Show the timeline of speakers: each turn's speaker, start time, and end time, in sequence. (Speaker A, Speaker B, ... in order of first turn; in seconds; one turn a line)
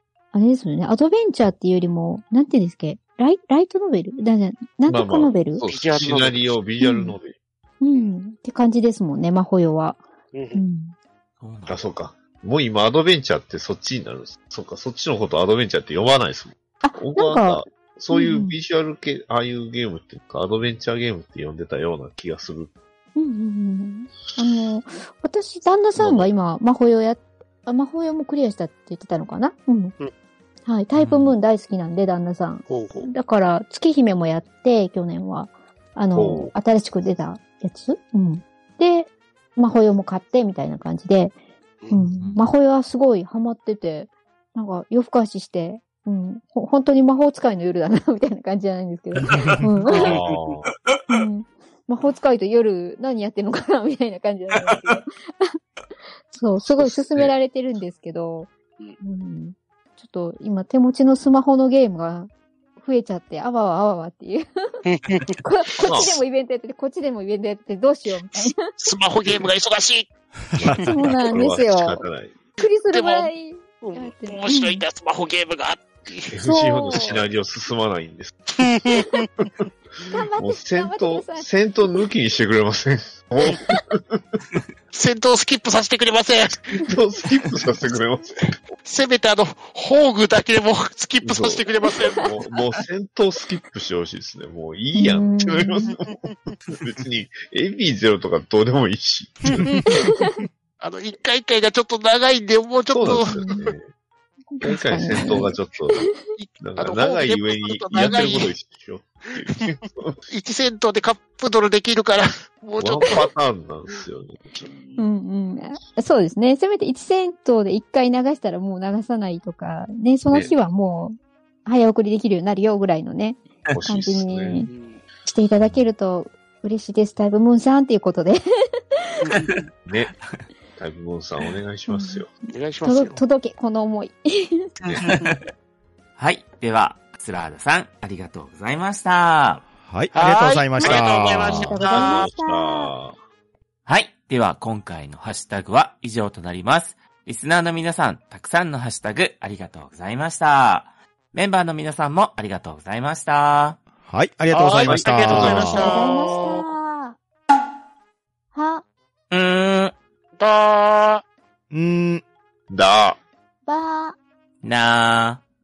Speaker A: 0.3-5.6
Speaker B: 4.9-7.4
Speaker C: 5.6-6.6
Speaker A: 6.8-7.2
Speaker A: 7.8-10.0
Speaker C: 10.3-10.6
Speaker A: 10.5-10.9
Speaker D: 11.4-11.9
Speaker B: 11.7-22.7
Speaker A: 16.8-18.6
Speaker A: 23.2-29.9
Speaker B: 26.0-26.3
Speaker A: 30.7-41.4
Speaker D: 31.0-31.4
Speaker C: 32.7-33.1
Speaker B: 36.1-36.5
Speaker A: 41.9-50.2
Speaker D: 42.2-42.5
Speaker E: 49.2-49.7
Speaker D: 49.3-50.0
Speaker B: 49.9-50.7
Speaker C: 50.0-50.5
Speaker A: 51.1-55.6
Speaker D: 54.7-55.0
Speaker A: 56.3-64.8
Speaker B: 56.6-57.3
Speaker C: 64.8-66.2
Speaker A: 65.4-68.6
Speaker B: 65.9-66.2
Speaker C: 68.4-70.1
Speaker E: 70.5-71.0
Speaker B: 70.5-72.4
Speaker C: 70.7-70.9
Speaker A: 70.9-72.0
Speaker A: 72.6-74.8
Speaker C: 72.8-76.4
Speaker B: 76.3-78.4
Speaker A: 76.4-77.2
Speaker C: 78.5-79.5
Speaker A: 79.0-79.2
Speaker A: 80.1-81.5
Speaker B: 80.3-84.2
Speaker C: 84.9-86.9
Speaker B: 86.8-88.4
Speaker C: 88.7-92.3
Speaker B: 91.2-99.7
Speaker A: 94.9-95.9
Speaker C: 96.0-96.3
Speaker C: 99.5-103.7
Speaker A: 99.9-100.4
Speaker B: 102.9-103.9
Speaker A: 103.0-103.5
Speaker A: 104.5-106.2
Speaker B: 104.6-110.2
Speaker C: 106.4-108.5
Speaker C: 109.5-113.3
Speaker B: 112.8-114.5
Speaker C: 114.5-115.1
Speaker A: 115.0-124.7
Speaker B: 120.3-120.5
Speaker B: 123.8-124.7
Speaker C: 124.7-125.0
Speaker A: 125.2-128.4
Speaker C: 129.2-129.6
Speaker D: 129.3-129.6
Speaker B: 129.9-130.1
Speaker D: 130.1-130.4
Speaker B: 130.8-132.3
Speaker A: 131.9-132.2
Speaker C: 132.5-133.2
Speaker A: 132.8-134.7
Speaker C: 134.8-135.3
Speaker D: 135.0-135.4
Speaker D: 136.2-139.7
Speaker E: 139.8-141.7
Speaker C: 140.1-142.3
Speaker B: 141.5-143.2
Speaker A: 141.5-142.9
Speaker D: 143.9-153.8
Speaker E: 154.0-155.9
Speaker C: 154.5-156.7
Speaker B: 154.8-155.8
Speaker A: 155.7-157.2
Speaker A: 158.5-158.8
Speaker D: 159.3-160.0
Speaker C: 160.4-161.2
Speaker E: 161.7-162.2
Speaker B: 162.7-163.2
Speaker A: 163.7-164.2
Speaker D: 164.6-165.4